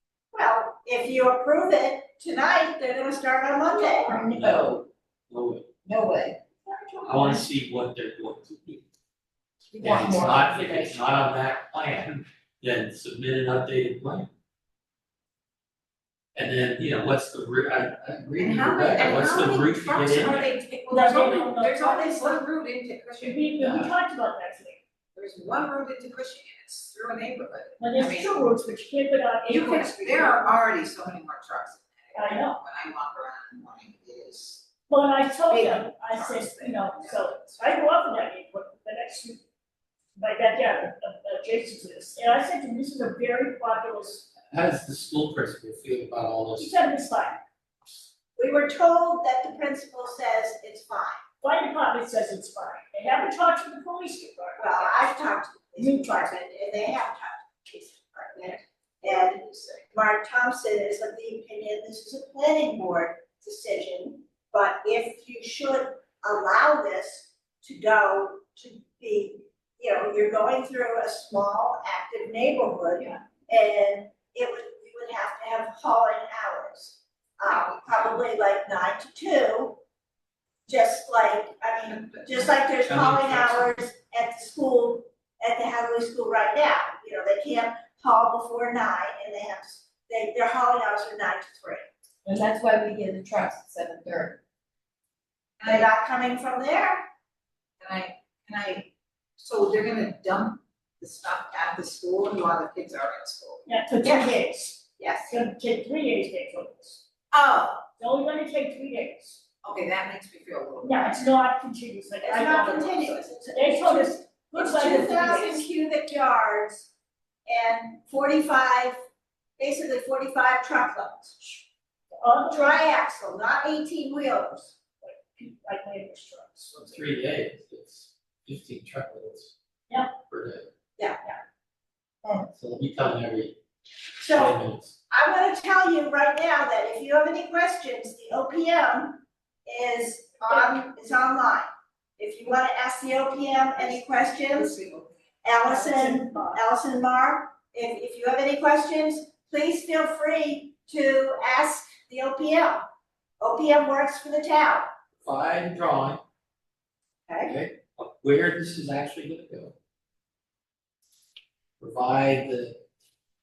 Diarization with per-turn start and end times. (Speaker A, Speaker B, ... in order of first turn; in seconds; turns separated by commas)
Speaker A: 0.3-4.2, Speaker B: 4.1-4.8, Speaker C: 4.2-4.8, Speaker C: 5.3-5.7, Speaker B: 5.9-6.3, Speaker C: 7.0-8.8, Speaker C: 9.8-14.3, Speaker D: 9.9-11.0, Speaker C: 16.3-20.5, Speaker B: 18.4-23.4, Speaker E: 20.9-22.4, Speaker E: 23.2-24.8, Speaker C: 23.6-23.9, Speaker B: 25.1-28.3, Speaker E: 27.8-30.5, Speaker B: 29.5-34.6, Speaker E: 32.1-32.6, Speaker E: 34.9-39.4, Speaker B: 35.5-37.6, Speaker E: 40.2-44.3, Speaker C: 44.5-46.7, Speaker E: 46.6-47.4, Speaker A: 48.4-51.2, Speaker E: 51.4-54.9, Speaker A: 54.6-79.8, Speaker E: 55.8-56.3, Speaker B: 59.0-59.8, Speaker A: 80.7-91.8, Speaker C: 82.8-83.7, Speaker D: 92.3-94.3, Speaker B: 95.6-95.9, Speaker A: 95.6-97.0, Speaker B: 97.8-103.6, Speaker E: 103.7-107.0, Speaker A: 104.0-104.4, Speaker A: 105.0-105.3, Speaker B: 107.3-107.8, Speaker E: 108.0-109.4, Speaker B: 109.6-111.2, Speaker E: 110.8-115.7, Speaker A: 112.2-116.9, Speaker A: 117.5-119.0, Speaker A: 119.6-121.5, Speaker E: 122.2-122.8, Speaker A: 122.5-124.8, Speaker E: 125.0-126.7, Speaker C: 126.7-129.5, Speaker E: 129.9-130.1, Speaker C: 130.3-130.7, Speaker C: 132.5-133.5, Speaker A: 134.2-144.8, Speaker C: 134.3-134.9, Speaker E: 140.5-140.8, Speaker B: 144.6-145.1, Speaker A: 145.4-152.8, Speaker E: 145.6-146.6, Speaker A: 153.4-154.9, Speaker C: 155.2-156.2, Speaker A: 157.3-157.5, Speaker C: 157.4-159.7, Speaker C: 161.8-162.8